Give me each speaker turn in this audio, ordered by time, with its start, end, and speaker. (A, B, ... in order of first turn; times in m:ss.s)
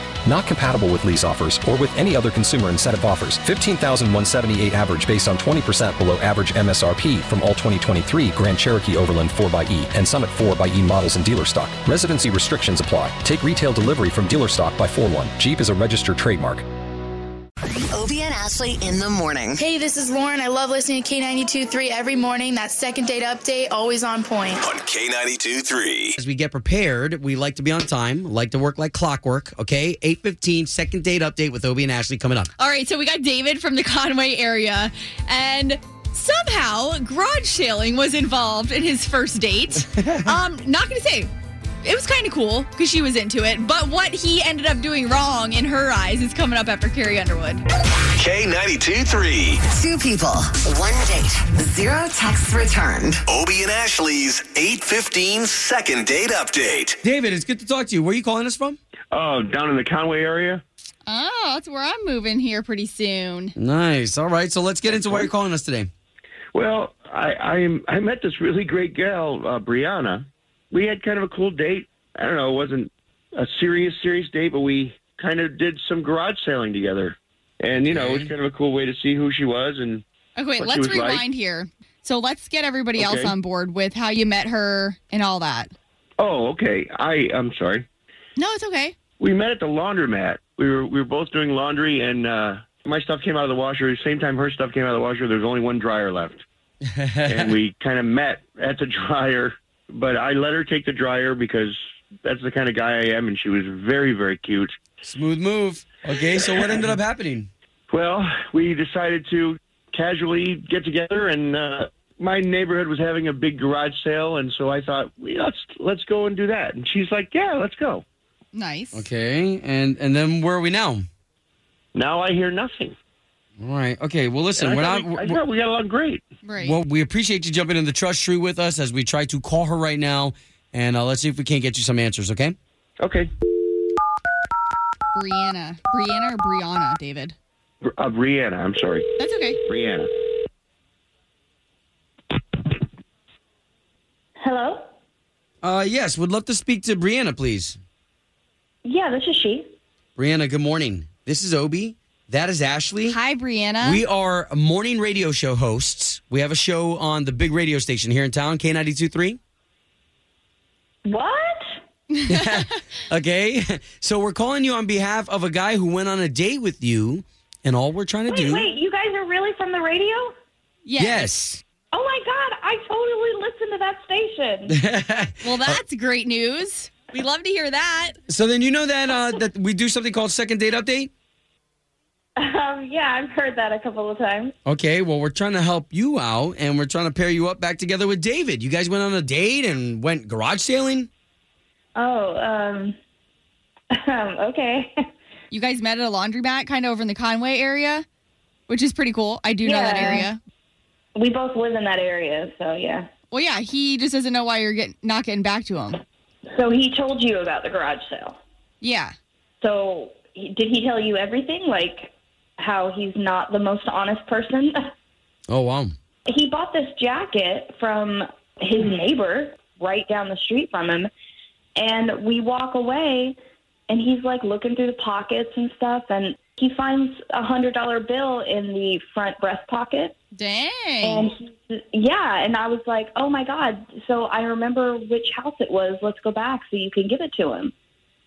0:00.3-0:16.7 A
0:17.9-0:19.6 B
0:19.6-0:24.7 C
0:24.8-0:26.1 D
0:26.2-0:32.5 E
0:32.6-0:41.3 F
0:40.0-0:40.2 E
0:41.8-0:47.6 F
0:48.2-0:49.6 D
0:49.7-0:53.3 B
0:53.3-0:56.9 D
0:57.0-0:58.8 E
0:59.1-1:00.6 G
1:01.1-1:03.6 F
1:03.6-1:05.9 E
1:04.9-1:05.3 G
1:06.5-1:20.0 G
1:17.8-1:18.3 E
1:20.4-1:25.7 F
1:20.6-1:21.2 G
1:23.0-1:23.3 G
1:26.2-1:27.9 G
1:28.4-1:29.0 F
1:29.2-1:36.4 G
1:36.9-1:37.5 E
1:37.3-1:44.8 G
1:45.0-1:47.5 E
1:47.9-1:58.0 G
1:58.5-1:59.0 F
1:58.9-2:01.1 E
2:02.0-2:03.0 G
2:03.6-2:05.4 E
2:04.6-2:06.2 G
2:06.4-2:06.8 F
2:06.6-2:12.6 E
2:13.0-2:13.3 G
2:15.1-2:17.4 F
2:17.9-2:19.1 G
2:19.2-2:19.6 F
2:19.6-2:20.1 G
2:24.4-2:24.8 H
2:25.6-2:27.8 E
2:28.8-2:29.7 H
2:30.2-2:33.2 E
2:33.1-2:34.0 F
2:33.8-2:39.4 E
2:41.0-2:41.8 H
2:42.3-2:48.7 E
2:48.3-2:50.3 H
2:50.8-2:51.3 F
2:51.0-2:51.6 E
2:51.9-2:54.8 H
2:54.7-2:55.8 E
2:55.4-2:58.2 F
2:58.3-3:01.1 E
3:02.4-3:04.5 H
3:04.6-3:11.1 E
3:12.0-3:13.0 H
3:14.0-3:14.9 H
3:15.5-3:18.0 F
3:18.7-3:20.4 F
3:19.6-3:20.3 H
3:21.2-3:23.1 H
3:23.3-3:26.0 F
3:26.5-3:28.4 H
3:28.8-3:29.1 F
3:29.6-3:34.8 H
3:35.5-3:35.9 E
3:36.3-3:41.1 H
3:41.8-3:43.4 H
3:43.9-3:50.2 H
3:50.4-3:51.3 F
3:51.0-3:57.7 H